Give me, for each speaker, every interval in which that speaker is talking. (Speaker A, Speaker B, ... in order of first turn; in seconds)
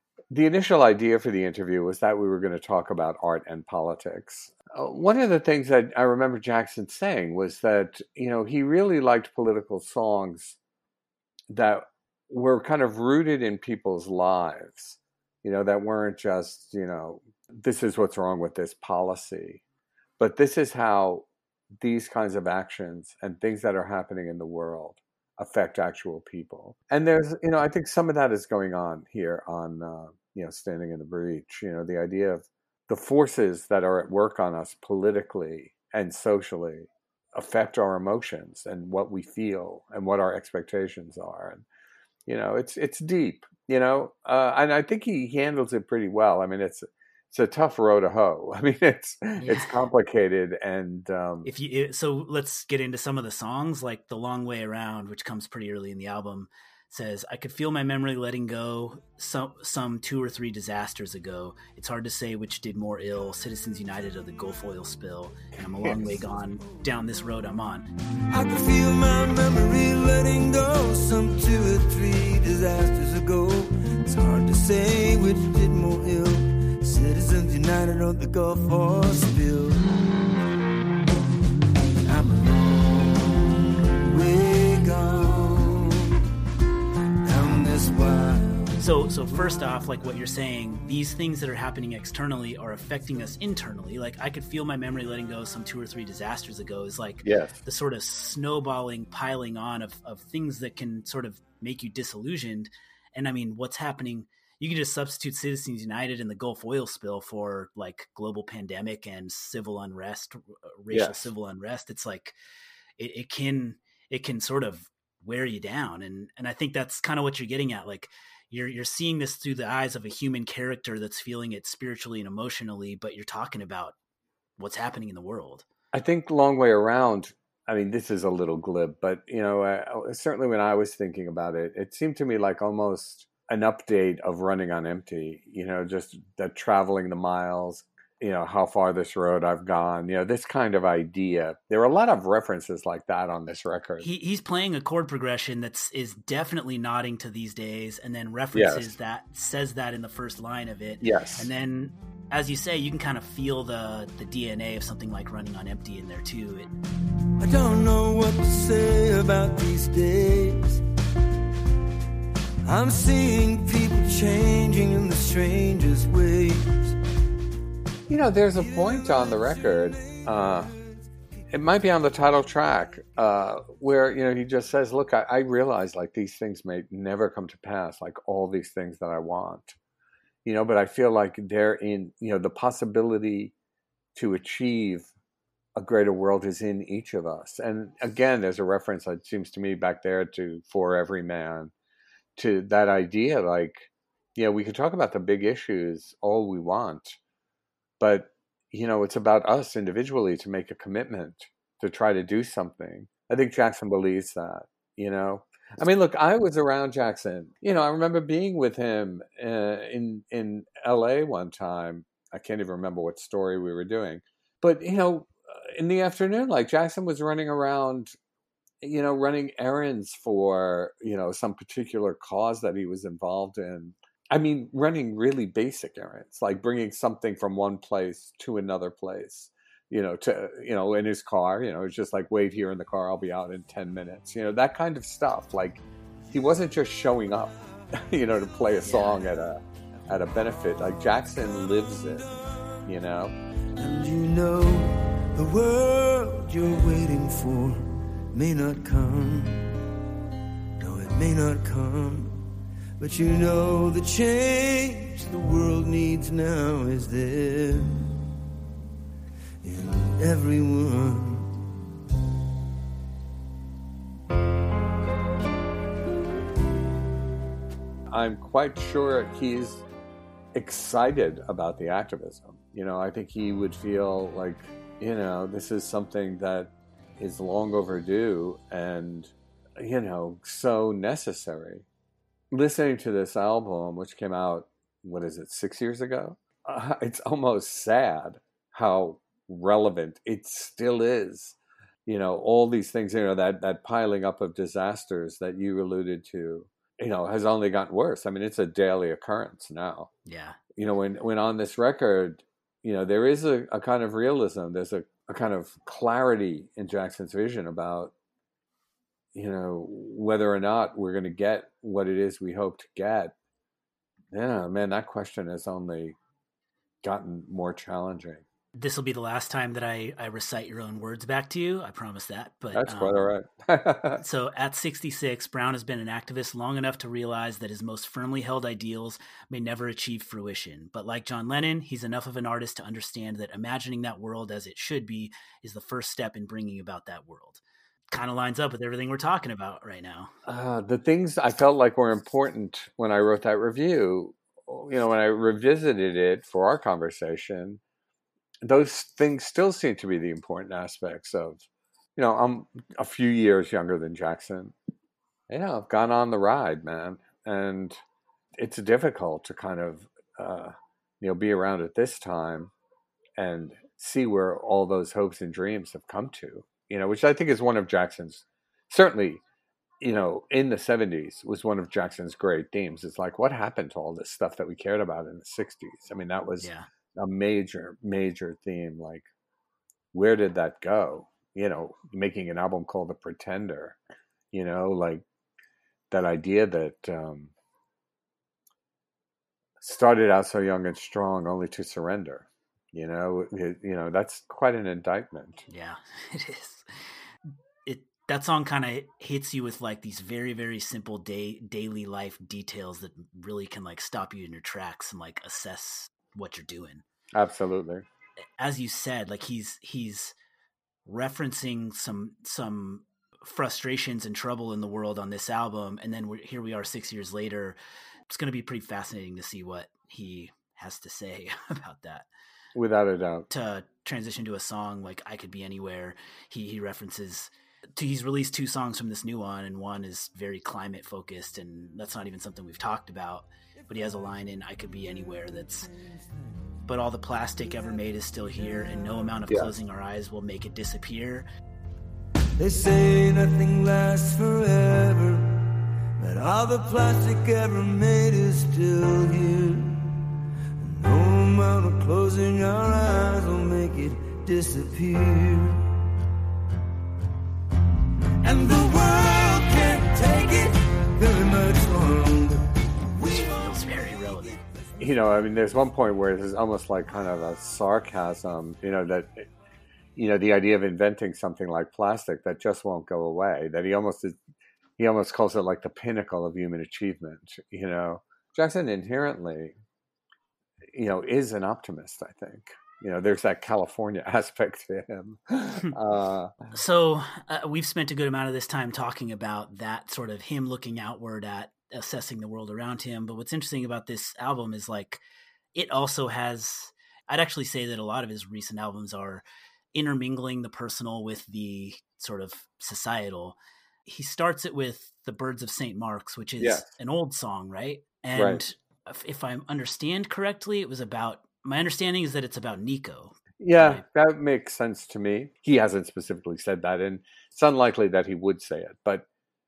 Speaker A: 0.3-10.6, 11.5-19.6, 20.2-21.3, 21.8-41.6, 42.3-51.5, 65.6-66.2, 97.2-97.6, 110.9-111.3, 125.9-144.1, 148.5-148.9, 151.0-151.5, 168.1-170.7, 171.5-179.8, 180.4-183.5, 184.2-185.1, 185.8-191.7, 192.4-197.2, 198.0-218.2, 218.8-243.3, 268.1-269.8, 270.5-281.9, 282.5-300.1, 300.8-308.1, 309.3-313.3, 314.3-316.1, 317.0-318.4, 322.7-324.2, 340.4-347.8, 348.6-354.8, 355.5-358.0, 358.6-362.7, 363.4-369.4, 370.0-379.3, 380.1-384.0, 384.5-385.2, 386.1-387.5, 389.8-395.6, 407.3-408.1, 422.8-423.5, 465.0-469.5, 470.1-474.4, 475.0-479.8, 480.9-486.6, 506.6-506.9, 508.4-508.6, 513.6-519.3
Speaker B: 49.4-49.8, 51.4-67.9, 88.8-112.3, 113.0-124.0, 124.6-125.7, 144.0-156.7, 238.8-239.2, 300.3-300.6, 318.8-323.4, 324.2-340.3, 376.6-376.9, 395.7-396.9, 397.9-407.0, 408.6-410.4, 411.1-417.8, 418.3-422.3, 423.5-435.9, 436.9-441.5, 463.3-464.6, 486.7-495.2, 495.7-514.0
Speaker C: 68.3-80.0, 82.0-86.1, 87.2-88.8, 157.4-160.8, 162.7-167.0, 168.9-170.2, 243.8-249.7, 250.8-252.4, 253.0-258.1, 259.6-261.5, 442.6-445.6, 446.2-450.2, 450.8-455.9, 458.4-463.8